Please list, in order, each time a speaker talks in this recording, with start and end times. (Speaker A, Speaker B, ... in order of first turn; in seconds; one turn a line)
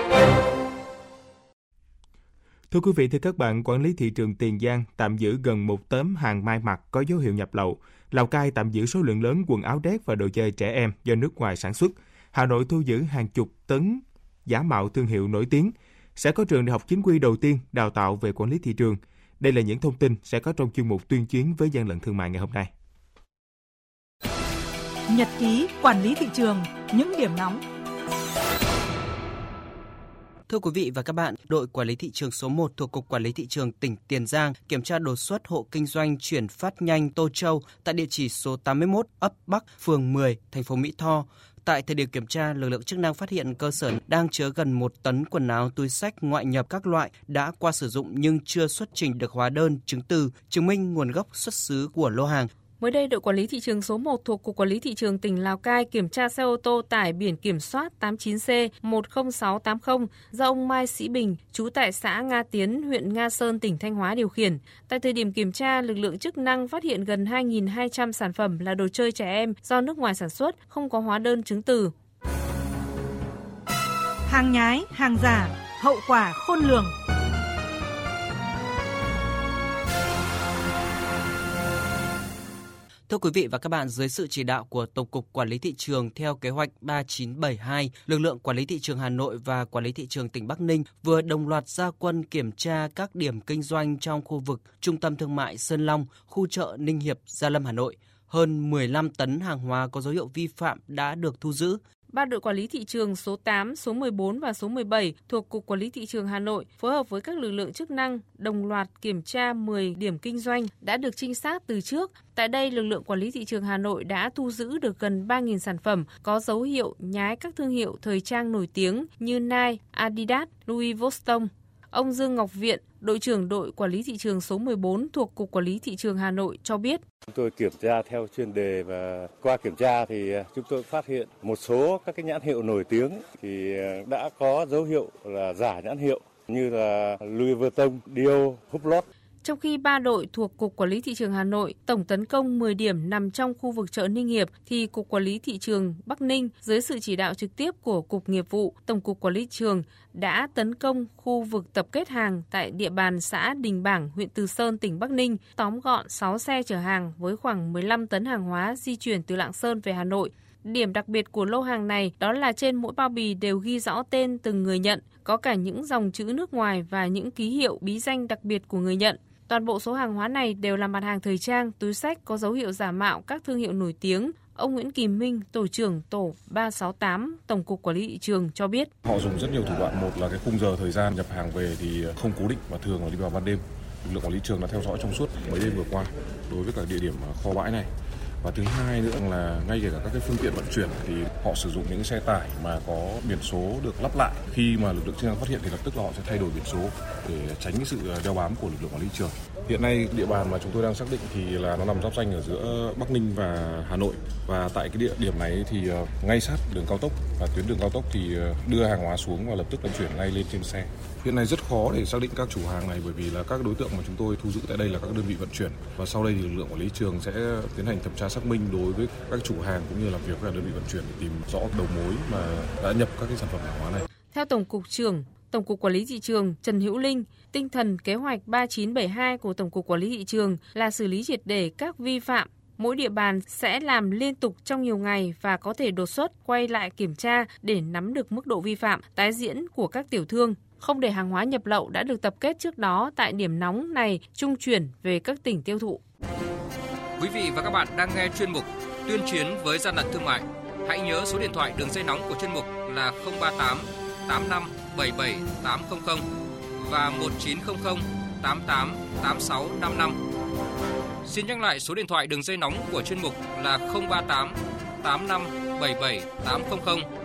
Speaker A: 2.7-22.7
Speaker B: 25.1-27.6
Speaker C: 30.5-52.5
Speaker D: 52.8-71.9
Speaker B: 74.3-76.9
Speaker C: 83.1-101.8
Speaker D: 102.1-127.0
Speaker E: 127.3-139.1
Speaker D: 139.4-178.9
Speaker F: 179.1-187.9
Speaker F: 188.4-224.1
Speaker D: 224.3-246.0
Speaker G: 247.2-256.2
Speaker G: 256.8-260.2
Speaker G: 261.2-267.1